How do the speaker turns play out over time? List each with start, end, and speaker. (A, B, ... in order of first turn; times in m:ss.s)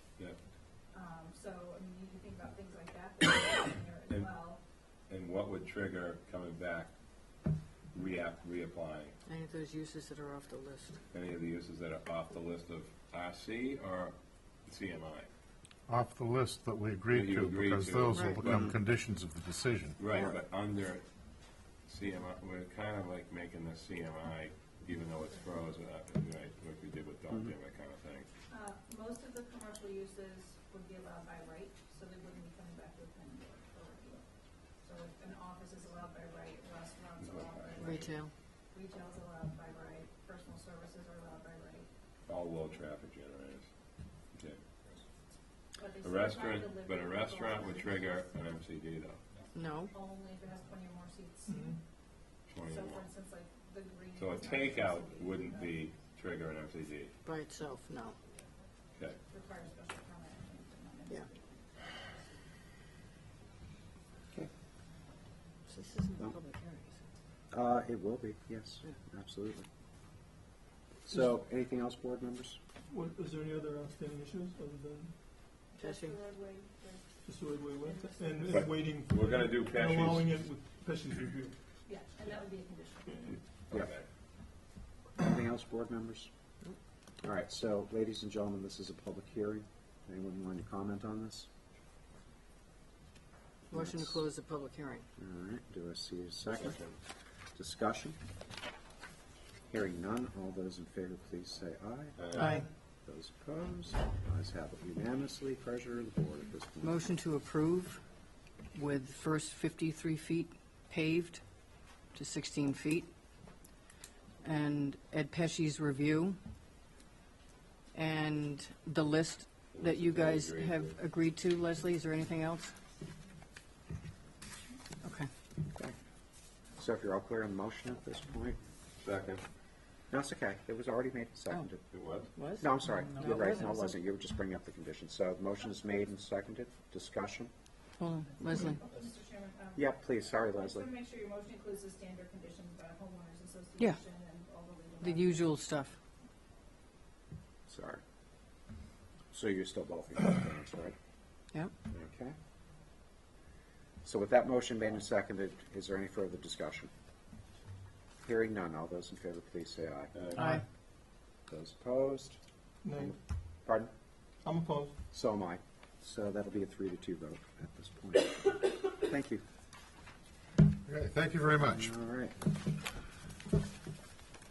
0:00.9-0:04.6 A
0:05.1-0:06.9 B
0:07.9-0:09.1 B
0:09.2-0:11.0 C
0:11.1-0:15.3 B
0:15.9-0:20.0 D
0:17.1-0:18.8 B
0:20.0-0:21.0 B
0:21.8-0:28.3 B
0:28.5-0:34.2 A
0:34.8-0:38.2 A
0:37.2-0:38.1 B
0:37.8-0:38.3 C
0:38.7-0:41.9 A
0:42.3-0:43.7 B
0:44.3-0:44.6 B
0:45.8-0:48.2 A
0:46.0-0:49.2 B
0:49.5-0:49.9 C
0:49.9-0:51.7 A
0:51.5-0:51.8 E
0:52.5-0:53.0 B
0:52.6-0:55.8 A
0:54.2-0:57.1 B
0:57.2-0:58.2 C
0:59.3-1:01.8 A
1:05.7-1:07.0 C
1:07.5-1:09.6 F
1:11.0-1:12.6 F
1:12.9-1:15.2 E
1:15.7-1:18.6 A
1:15.8-1:16.2 C
1:17.2-1:21.6 E
1:18.5-1:20.3 B
1:21.8-1:23.3 A
1:23.1-1:23.3 E
1:23.7-1:24.0 B
1:25.2-1:26.3 F
1:27.2-1:31.5 F
1:33.7-1:35.1 C
1:33.7-1:34.2 F
1:35.2-1:36.9 F
1:36.5-1:36.9 B
1:37.5-1:38.2 F
1:39.7-1:42.5 F
1:42.2-1:42.6 B
1:42.3-1:42.6 C
1:43.0-1:47.0 F
1:46.8-1:48.0 C
1:48.7-1:51.4 C
1:52.1-1:53.1 C
1:54.4-1:56.4 C
1:57.9-2:02.7 C
1:59.7-2:01.0 B
2:05.0-2:05.3 C
2:06.8-2:08.6 F
2:09.0-2:09.4 B
2:10.1-2:11.8 F
2:11.9-2:12.3 B
2:12.3-2:13.9 C
2:12.6-2:17.5 F
2:18.0-2:18.8 C
2:18.5-2:19.8 A
2:19.8-2:20.9 F
2:20.6-2:25.6 A
2:25.0-2:25.9 C
2:27.7-2:28.0 F
2:29.3-2:30.9 F
2:31.9-2:32.3 F
2:34.0-2:36.9 F
2:38.2-2:40.6 F
2:40.1-2:40.5 B
2:41.5-2:42.4 F
2:42.8-2:43.1 E
2:42.9-2:43.9 F
2:44.4-2:45.0 E
2:45.1-2:49.4 F
2:50.9-2:51.8 D
2:51.5-2:52.5 F